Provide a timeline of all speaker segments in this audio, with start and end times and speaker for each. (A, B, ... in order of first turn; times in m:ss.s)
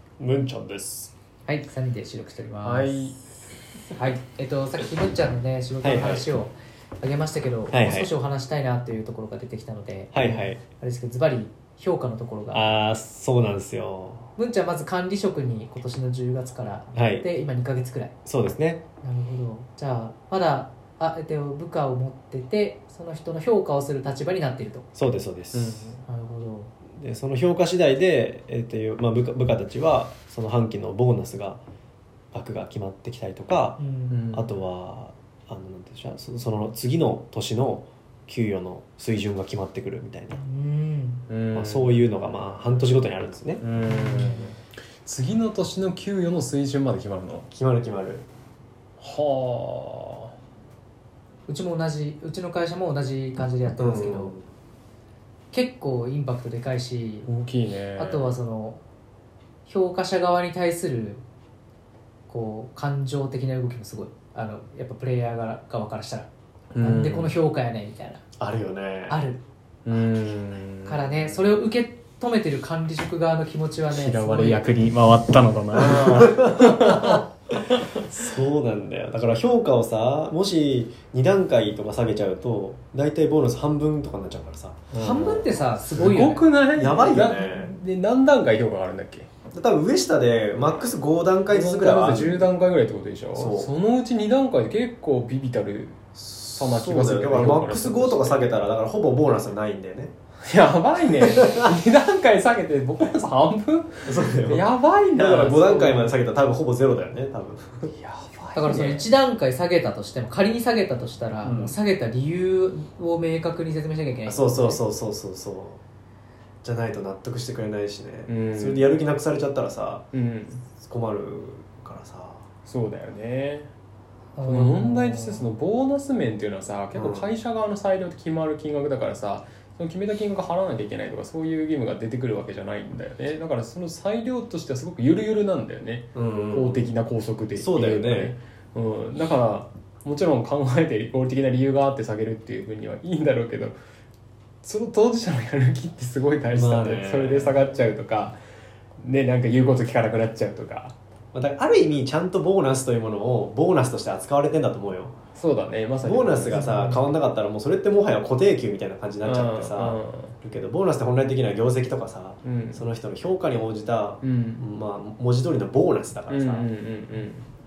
0:00.2-0:01.1 A
0:01.5-0:03.1 B
0:02.6-0:03.2 C
0:03.9-0:12.7 B
0:05.8-0:06.3 A
0:07.7-0:08.1 A
0:10.1-0:10.6 A
0:12.5-0:14.3 A
0:14.4-0:18.1 B
0:16.9-0:17.2 A
0:18.2-0:18.8 A
0:19.0-0:24.9 B
0:25.0-0:25.9 A
0:25.5-0:26.0 C
0:26.0-0:26.7 B
0:27.0-0:31.6 A
0:32.3-0:33.8 A
0:33.8-0:34.2 B
0:34.1-0:34.6 C
0:34.3-0:40.4 A
0:40.4-0:41.2 B
0:41.3-0:42.9 C
0:41.6-0:43.6 A
0:43.6-0:47.5 C
0:43.8-0:44.5 B
0:47.5-0:48.2 A
0:49.0-0:50.3 C
0:51.5-0:54.3 B
0:53.8-0:54.5 A
0:55.5-0:57.3 B
0:57.3-0:58.3 C
0:58.0-0:58.8 B
0:59.7-1:01.2 B
1:02.3-1:06.3 B
1:06.7-1:07.3 C
1:06.8-1:08.2 B
1:08.4-1:09.2 A
1:09.1-1:09.4 B
1:09.9-1:11.4 C
1:10.8-1:14.7 B
1:13.9-1:18.1 C
1:15.8-1:17.2 A
1:18.1-1:25.6 A
1:24.9-1:25.2 C
1:25.0-1:26.4 B
1:25.9-1:29.3 C
1:26.7-1:27.8 A
1:29.5-1:32.5 A
1:31.5-1:38.6 C
1:33.3-1:33.7 A
1:36.5-1:40.1 A
1:40.4-1:46.2 C
1:41.1-1:41.7 A
1:44.0-1:47.9 A
1:47.9-1:49.0 C
1:48.6-1:54.8 B
1:48.7-1:49.0 A
1:51.4-1:51.8 A
1:54.2-1:55.8 A
1:56.6-2:00.1 A
1:58.3-1:58.9 C
2:00.1-2:00.6 C
2:00.8-2:02.5 A
2:02.7-2:03.7 C
2:04.4-2:05.5 B
2:04.4-2:23.8 C
2:06.9-2:07.3 A
2:16.2-2:16.9 A
2:17.6-2:18.3 A
2:24.6-2:28.4 C
2:26.5-2:27.7 A
2:29.0-2:31.0 C
2:31.3-2:35.2 A
2:35.4-2:36.6 C
2:36.0-2:46.7 A
2:36.5-2:37.1 B
2:39.2-2:40.3 C
2:42.4-2:42.9 C
2:44.2-2:44.6 C
2:46.3-2:47.5 C